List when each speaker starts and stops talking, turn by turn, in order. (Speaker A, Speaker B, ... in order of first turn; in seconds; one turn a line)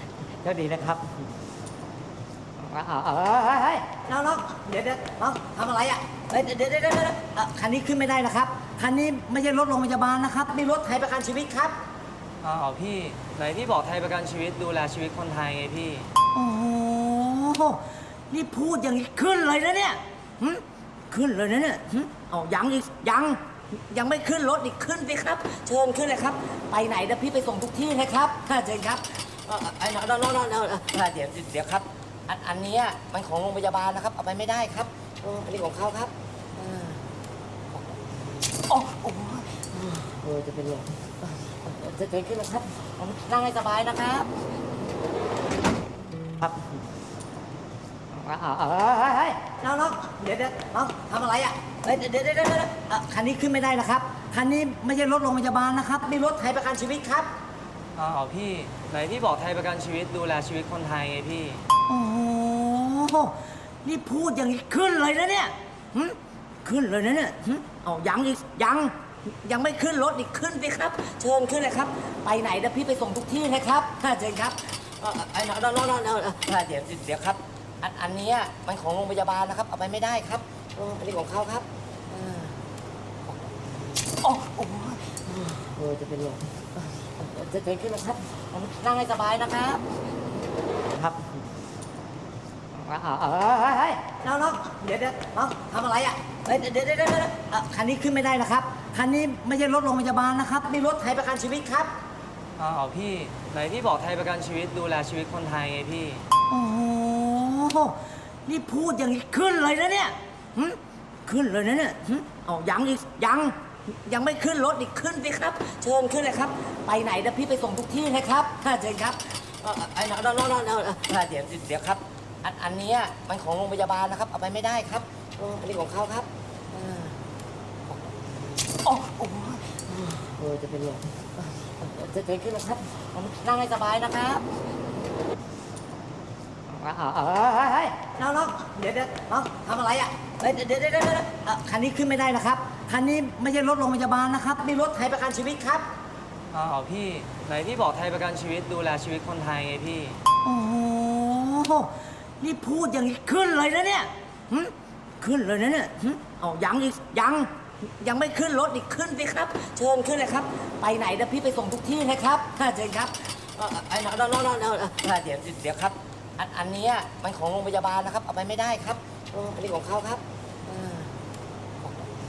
Speaker A: 0.4-1.1
Speaker A: 2.6-11.8
Speaker B: 12.4-16.1
Speaker A: 16.3-37.0
Speaker A: 38.7-44.3
Speaker A: 48.1-57.3
Speaker B: 58.0-61.6
Speaker A: 61.9-82.6
Speaker A: 84.2-89.8
Speaker A: 91.0-91.3
Speaker A: 92.8-101.9
Speaker B: 102.6-106.2
Speaker A: 106.5-127.2
Speaker A: 128.8-134.4
Speaker A: 136.7-145.9
Speaker B: 146.5-150.2
Speaker A: 150.4-171.1